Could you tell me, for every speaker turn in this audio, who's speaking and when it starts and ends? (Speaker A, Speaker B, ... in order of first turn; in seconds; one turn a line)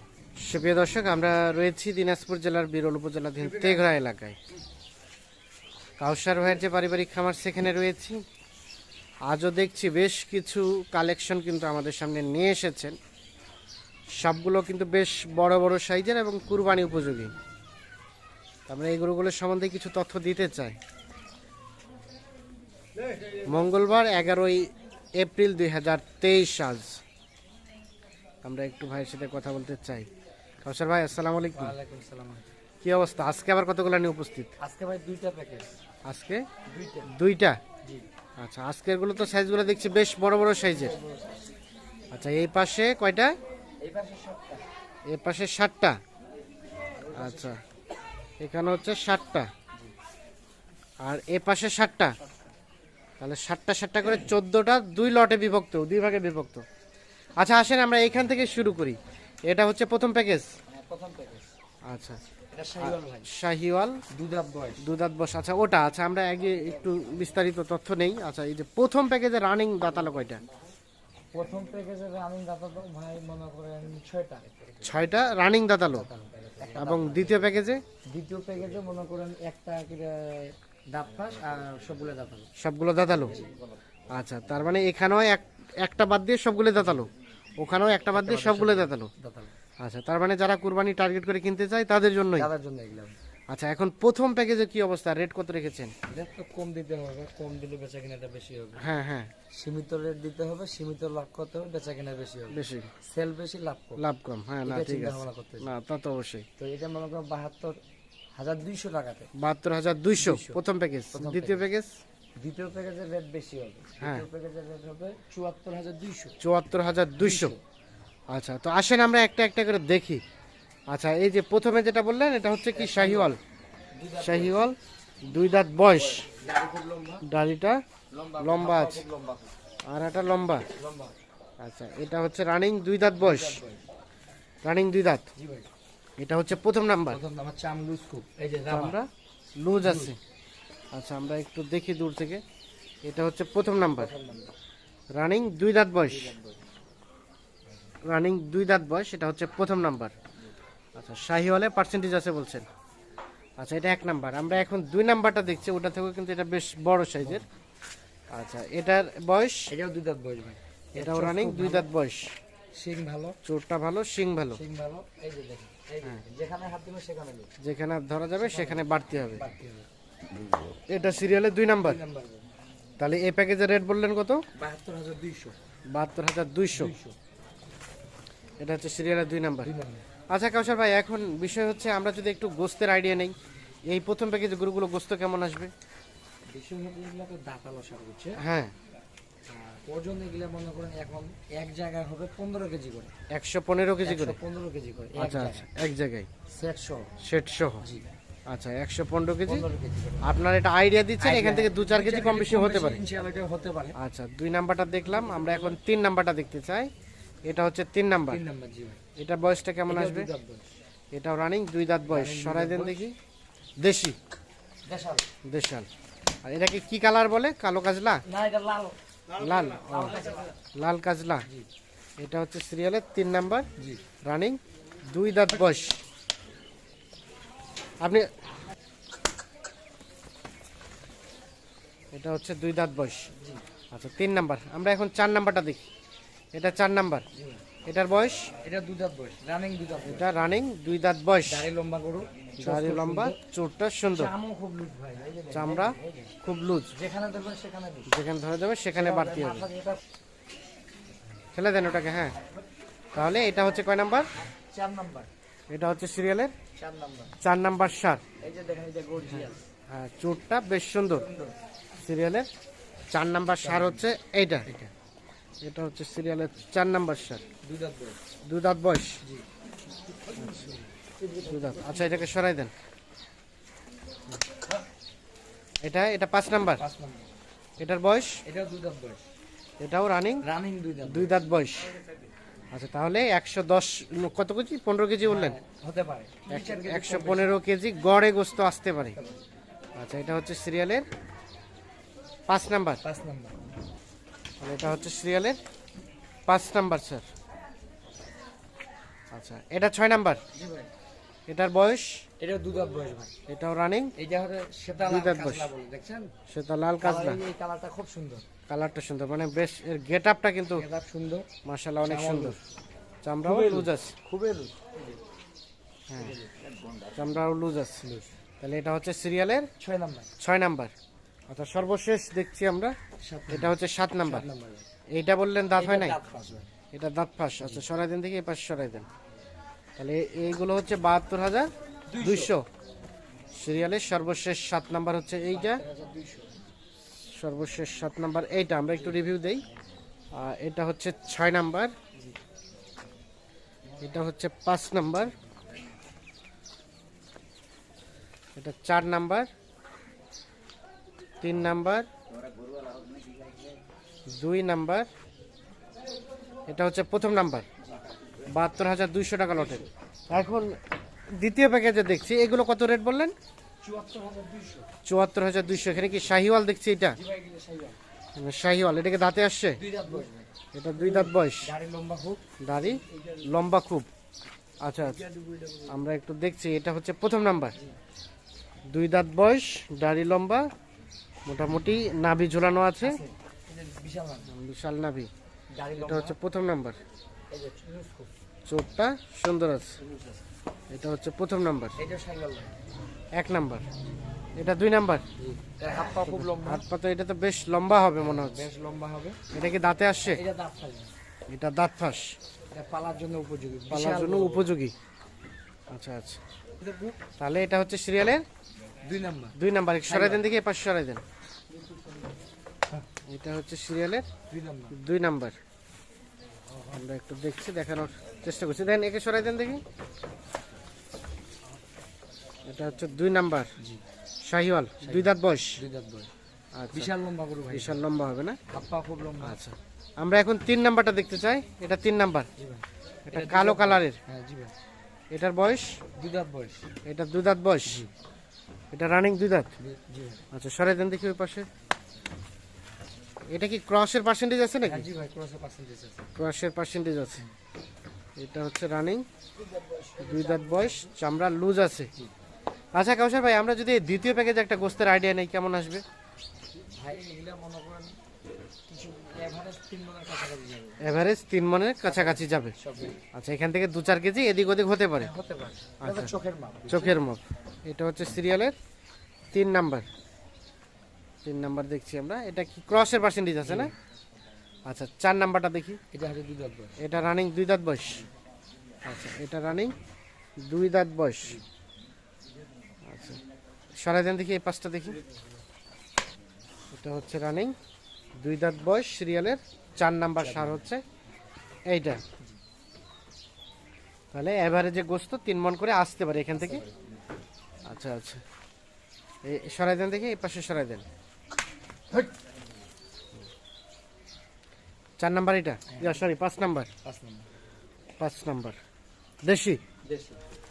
Speaker A: 0.4-4.4
Speaker A: 6.0-8.2
Speaker A: 9.3-12.9
Speaker A: 14.2-17.3
Speaker A: 18.7-20.8
Speaker A: 23.4-27.0
Speaker A: 28.4-30.1
Speaker A: 30.6-31.7
Speaker B: 31.5-32.5
Speaker A: 32.8-34.5
Speaker B: 34.6-35.7
Speaker A: 36.0-36.4
Speaker B: 36.6-37.1
Speaker A: 37.1-37.6
Speaker A: 38.4-40.9
Speaker B: 40.6-41.4
Speaker A: 42.1-43.3
Speaker B: 43.8-44.6
Speaker A: 45.1-46.0
Speaker B: 47.0-47.6
Speaker A: 47.1-47.6
Speaker A: 48.4-49.5
Speaker A: 51.0-52.2
Speaker A: 53.2-56.6
Speaker A: 57.4-60.5
Speaker B: 60.7-61.5
Speaker A: 61.9-62.2
Speaker B: 62.5-63.3
Speaker A: 62.8-64.0
Speaker B: 64.1-64.9
Speaker A: 64.8-70.4
Speaker B: 71.3-74.5
Speaker A: 74.8-76.1
Speaker B: 75.8-77.5
Speaker A: 76.6-77.8
Speaker B: 78.1-82.5
Speaker A: 82.6-83.4
Speaker B: 83.3-83.5
Speaker A: 84.1-89.1
Speaker B: 88.1-89.5
Speaker A: 89.8-92.5
Speaker B: 92.3-93.2
Speaker A: 93.5-95.9
Speaker B: 96.1-98.8
Speaker A: 98.8-99.3
Speaker B: 99.5-104.0
Speaker A: 102.5-102.9
Speaker A: 104.0-106.5
Speaker B: 104.6-105.7
Speaker B: 106.6-107.8
Speaker B: 108.3-109.3
Speaker A: 109.3-112.0
Speaker B: 110.2-110.6
Speaker B: 111.1-111.7
Speaker B: 112.4-116.3
Speaker A: 116.4-117.5
Speaker B: 117.2-117.6
Speaker A: 118.3-120.2
Speaker A: 120.9-123.4
Speaker B: 122.7-123.3
Speaker B: 123.9-124.6
Speaker A: 124.2-126.3
Speaker B: 126.2-127.2
Speaker A: 127.2-127.8
Speaker B: 128.1-129.5
Speaker A: 128.4-129.0
Speaker A: 129.8-130.7
Speaker B: 130.8-131.1
Speaker A: 131.6-133.6
Speaker B: 133.2-133.8
Speaker A: 134.6-135.3
Speaker B: 135.3-135.7
Speaker A: 136.2-137.2
Speaker B: 137.1-138.9
Speaker A: 138.7-139.1
Speaker A: 139.6-140.2
Speaker B: 139.8-140.1
Speaker A: 140.9-142.4
Speaker A: 143.0-144.1
Speaker B: 143.8-144.5
Speaker A: 145.1-146.3
Speaker B: 146.1-146.6
Speaker A: 148.0-150.1
Speaker A: 150.9-152.7
Speaker A: 153.6-157.4
Speaker B: 157.2-157.5
Speaker A: 158.3-159.7
Speaker B: 159.7-161.9
Speaker A: 161.0-162.3
Speaker B: 162.7-163.4
Speaker A: 163.4-164.6
Speaker B: 164.5-167.5
Speaker A: 167.6-169.4
Speaker B: 168.4-169.9
Speaker A: 170.7-172.0
Speaker B: 171.8-172.4
Speaker A: 173.0-174.4
Speaker B: 174.5-175.6
Speaker A: 175.9-176.9
Speaker B: 176.7-177.2
Speaker A: 178.6-179.7
Speaker B: 179.6-180.1
Speaker A: 180.3-183.3
Speaker A: 183.9-185.7
Speaker B: 186.5-188.4
Speaker A: 188.4-188.7
Speaker B: 189.5-193.1
Speaker A: 193.3-194.4
Speaker B: 194.0-195.7
Speaker A: 195.2-196.3
Speaker B: 196.5-197.1
Speaker A: 197.2-197.9
Speaker B: 197.8-198.1
Speaker A: 198.5-199.6
Speaker B: 199.4-200.3
Speaker A: 200.2-203.0
Speaker B: 201.2-204.0
Speaker A: 203.9-206.9
Speaker B: 205.1-205.8
Speaker A: 207.4-208.4
Speaker B: 208.3-209.0
Speaker A: 209.2-210.3
Speaker B: 209.9-210.7
Speaker A: 211.1-213.1
Speaker B: 212.1-213.0
Speaker A: 213.8-214.2
Speaker B: 214.8-215.3
Speaker A: 215.4-215.9
Speaker A: 216.4-218.2
Speaker B: 218.2-219.0
Speaker A: 219.3-221.4
Speaker B: 219.8-220.5
Speaker A: 222.2-223.7
Speaker B: 223.8-224.0
Speaker A: 224.2-226.0
Speaker A: 228.0-228.3
Speaker A: 232.1-233.3
Speaker A: 233.9-235.8
Speaker A: 236.5-237.2
Speaker B: 237.3-237.6
Speaker A: 237.8-238.5
Speaker B: 238.6-240.3
Speaker A: 240.0-241.7
Speaker B: 241.5-243.4
Speaker A: 242.6-244.3
Speaker B: 244.1-246.4
Speaker A: 245.5-246.9
Speaker B: 246.9-248.1
Speaker A: 248.1-249.7
Speaker B: 248.9-250.0
Speaker A: 251.5-252.3
Speaker A: 253.1-254.3
Speaker B: 254.4-255.3
Speaker A: 255.7-256.5
Speaker B: 256.7-257.3
Speaker A: 257.4-258.2
Speaker B: 258.4-259.6
Speaker A: 259.2-261.2
Speaker B: 261.1-261.5
Speaker A: 261.9-262.5
Speaker A: 263.1-264.7
Speaker B: 263.6-264.1
Speaker B: 264.6-264.9
Speaker A: 265.6-267.4
Speaker B: 267.6-268.2
Speaker A: 268.4-269.2
Speaker B: 270.1-272.3
Speaker A: 270.4-270.7
Speaker A: 271.4-272.7
Speaker A: 275.8-276.8
Speaker B: 276.8-277.3
Speaker A: 277.8-278.4
Speaker B: 278.4-279.2
Speaker A: 279.8-280.4
Speaker B: 280.4-281.3
Speaker A: 281.0-281.9
Speaker A: 282.7-285.6
Speaker B: 285.2-287.5
Speaker A: 286.5-289.2
Speaker B: 289.1-289.4
Speaker A: 289.9-291.1
Speaker A: 292.5-293.0
Speaker B: 293.0-293.6
Speaker A: 294.6-295.6
Speaker A: 296.5-297.2
Speaker A: 299.3-300.4
Speaker B: 300.5-300.9
Speaker A: 301.5-302.2
Speaker B: 302.4-303.3
Speaker A: 303.5-304.1
Speaker B: 304.2-306.3
Speaker A: 305.0-305.7
Speaker A: 306.5-307.4
Speaker B: 307.0-308.4
Speaker A: 308.7-310.8
Speaker B: 310.8-311.5
Speaker A: 311.6-312.6
Speaker B: 312.0-312.7
Speaker A: 313.2-314.1
Speaker B: 313.4-315.2
Speaker A: 316.1-316.3
Speaker B: 316.1-316.7
Speaker A: 317.1-318.0
Speaker B: 318.0-318.3
Speaker A: 318.6-319.7
Speaker B: 319.8-320.3
Speaker A: 320.4-320.9
Speaker A: 321.5-322.9
Speaker B: 323.2-324.9
Speaker A: 323.5-324.5
Speaker A: 325.1-326.2
Speaker B: 325.8-326.7
Speaker A: 326.9-329.1
Speaker B: 327.6-327.9
Speaker A: 330.0-332.6
Speaker B: 332.1-332.5
Speaker A: 333.5-335.8
Speaker B: 335.5-336.6
Speaker A: 337.2-339.6
Speaker A: 340.3-341.9
Speaker A: 344.0-345.3
Speaker A: 348.6-349.5
Speaker A: 351.4-352.1
Speaker A: 354.3-355.1
Speaker A: 356.7-357.6
Speaker A: 358.4-360.8
Speaker B: 359.5-359.9
Speaker A: 361.3-363.3
Speaker B: 363.8-364.9
Speaker A: 365.0-367.2
Speaker B: 367.1-368.0
Speaker A: 368.4-369.8
Speaker B: 369.8-373.6
Speaker A: 370.7-371.7
Speaker A: 372.6-374.1
Speaker A: 374.8-375.2
Speaker B: 375.0-376.1
Speaker A: 375.9-377.8
Speaker A: 378.9-380.7
Speaker A: 381.4-383.2
Speaker B: 383.0-384.5
Speaker A: 384.5-385.3
Speaker B: 385.7-386.4
Speaker A: 386.0-387.0
Speaker B: 387.5-388.3
Speaker A: 388.7-389.9
Speaker B: 390.0-390.4
Speaker A: 390.9-392.0
Speaker B: 392.0-392.8
Speaker A: 393.3-393.9
Speaker A: 394.6-395.2
Speaker B: 395.4-396.8
Speaker A: 396.2-398.7
Speaker B: 398.2-399.4
Speaker A: 399.5-400.4
Speaker B: 400.2-401.1
Speaker A: 401.5-402.4
Speaker B: 402.7-404.7
Speaker A: 403.9-404.9
Speaker A: 405.9-406.4
Speaker B: 406.8-407.2
Speaker A: 407.4-408.4
Speaker B: 409.0-410.4
Speaker A: 409.6-411.2
Speaker B: 411.8-412.2
Speaker A: 413.3-414.2
Speaker B: 414.5-415.0
Speaker A: 414.9-415.6
Speaker B: 416.7-417.0
Speaker A: 416.9-419.8
Speaker A: 422.6-423.7
Speaker A: 424.4-425.8
Speaker B: 425.0-426.3
Speaker A: 426.7-427.1
Speaker B: 426.9-428.0
Speaker A: 427.7-428.6
Speaker B: 428.7-429.6
Speaker A: 429.4-432.5
Speaker B: 432.6-434.7
Speaker A: 433.3-434.2
Speaker A: 435.3-436.0
Speaker B: 436.1-436.9
Speaker A: 437.0-438.0
Speaker A: 438.9-439.7
Speaker B: 439.8-440.4
Speaker A: 440.5-441.7
Speaker A: 443.5-445.1
Speaker B: 444.8-446.3
Speaker A: 446.4-447.4
Speaker A: 448.4-449.2
Speaker B: 449.6-451.1
Speaker A: 450.2-452.1
Speaker A: 452.9-456.0
Speaker B: 456.9-458.1
Speaker B: 458.9-461.0
Speaker A: 461.0-462.7
Speaker B: 462.1-463.2
Speaker A: 463.3-465.3
Speaker B: 465.2-467.2
Speaker A: 466.0-466.3
Speaker A: 466.9-468.8
Speaker A: 469.5-470.1
Speaker A: 471.4-473.9
Speaker B: 473.6-473.9
Speaker A: 474.9-476.0
Speaker B: 476.1-476.9
Speaker A: 477.0-478.3
Speaker A: 479.0-479.9
Speaker A: 480.6-481.6
Speaker A: 483.1-483.4
Speaker A: 484.0-485.2
Speaker A: 486.9-487.7
Speaker A: 488.4-491.0
Speaker B: 490.4-490.8
Speaker A: 491.9-492.2
Speaker A: 494.3-496.8
Speaker B: 496.5-496.9
Speaker A: 497.9-498.4
Speaker A: 499.4-501.0
Speaker A: 505.2-506.9
Speaker B: 505.9-506.2
Speaker B: 507.0-507.5
Speaker A: 508.2-508.8
Speaker A: 509.4-509.8
Speaker B: 510.0-510.4